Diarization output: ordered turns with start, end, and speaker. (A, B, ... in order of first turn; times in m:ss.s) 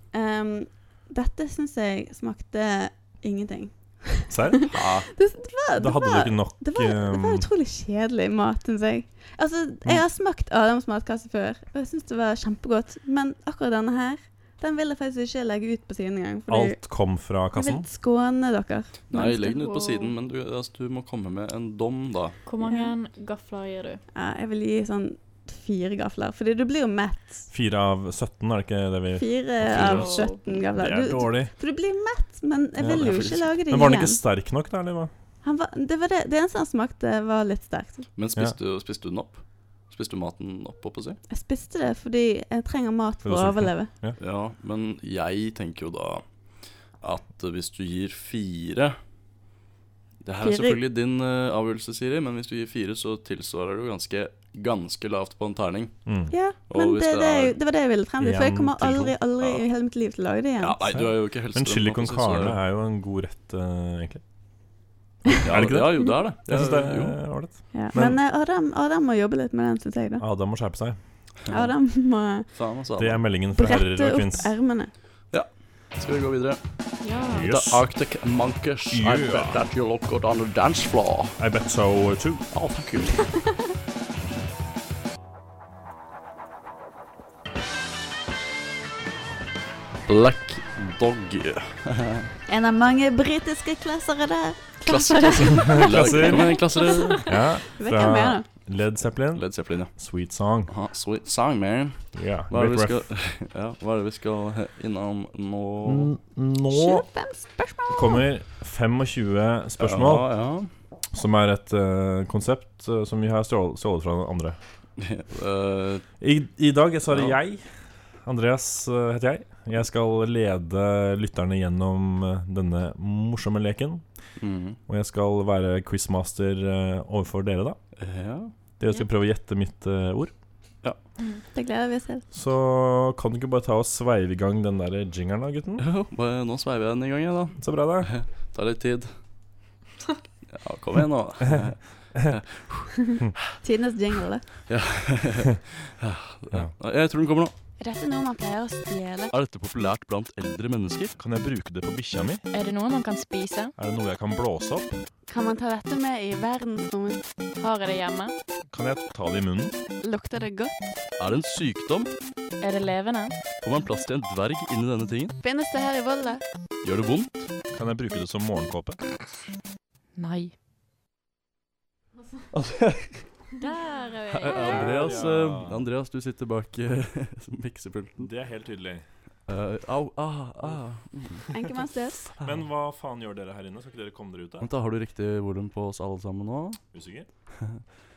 0:00.1-0:19.1 A
0:04.3-0:04.8 B
0:04.7-0:05.1 C
0:05.8-0:07.5 B
0:16.5-0:17.9 B
0:19.1-0:20.1 D
0:19.1-0:22.4 C
0:22.4-0:24.0 D
0:22.6-0:22.9 A
0:24.1-0:27.5 A
0:27.5-0:30.2 B
0:29.2-0:34.2 A
0:29.7-0:30.4 D
0:29.7-0:30.1 C
0:30.8-0:31.5 B
0:32.8-0:35.1 B
0:32.8-0:33.4 C
0:35.4-0:38.1 A
0:38.2-0:41.2 C
0:41.3-0:43.9 A
0:43.2-0:44.2 B
0:44.2-0:46.3 C
0:47.0-0:49.0 C
0:50.2-0:56.0 C
0:50.4-0:50.8 A
0:56.0-0:56.3 B
0:56.3-1:00.8 A
0:56.7-0:57.6 C
0:58.2-0:59.2 B
1:00.6-1:02.6 C
1:00.9-1:04.2 B
1:05.4-1:08.2 B
1:05.4-1:07.2 C
1:07.7-1:10.2 A
1:10.2-1:11.0 B
1:11.5-1:11.7 C
1:11.5-1:12.5 A
1:12.5-1:13.2 C
1:13.0-1:14.5 B
1:13.5-1:14.9 A
1:15.3-1:16.6 C
1:17.0-1:17.5 D
1:17.3-1:17.8 B
1:17.4-1:21.4 C
1:18.9-1:19.6 B
1:21.4-1:22.4 B
1:22.5-1:23.3 C
1:30.1-1:32.3 C
1:32.5-1:38.4 A
1:34.8-1:37.3 C
1:35.7-1:36.6 B
1:37.2-1:40.7 B
1:39.3-1:39.9 C
1:40.7-1:46.1 C
1:42.1-1:43.0 B
1:45.8-1:47.0 B
1:46.7-1:48.2 A
1:47.9-1:50.3 B
1:49.8-1:50.7 C
1:51.1-1:54.6 B
1:55.0-1:56.0 C
1:56.2-2:04.0 B
1:57.1-1:57.4 C
2:04.4-2:04.8 C
2:04.9-2:07.8 B
2:08.0-2:08.5 C
2:08.8-2:10.3 B
2:11.2-2:11.4 D
2:11.5-2:12.2 A
2:12.3-2:15.8 B
2:15.8-2:19.1 C
2:17.6-2:18.1 B
2:20.5-2:23.5 C
2:23.6-2:24.5 A
2:24.7-2:27.5 C
2:27.8-2:29.3 A
2:29.3-2:31.2 C
2:31.2-2:32.4 B
2:32.5-2:33.7 D
2:33.8-2:35.0 B
2:35.3-2:37.2 A
2:37.6-2:38.3 D
2:38.7-2:39.8 B
2:40.0-2:40.7 A
2:41.2-2:42.1 C
2:42.6-2:43.4 D
2:43.6-2:45.4 C
2:45.4-2:46.4 A
2:46.8-2:47.5 C
2:47.7-2:49.0 B
2:50.2-2:50.5 D
2:52.5-2:53.2 C
2:53.6-2:55.2 D
2:54.3-2:58.3 C
2:54.6-2:55.8 B
2:58.2-2:59.0 B
2:59.5-3:01.6 C
3:01.5-3:02.2 A
3:02.2-3:02.6 C
3:02.4-3:04.7 B
3:04.6-3:06.8 C
3:06.9-3:07.3 B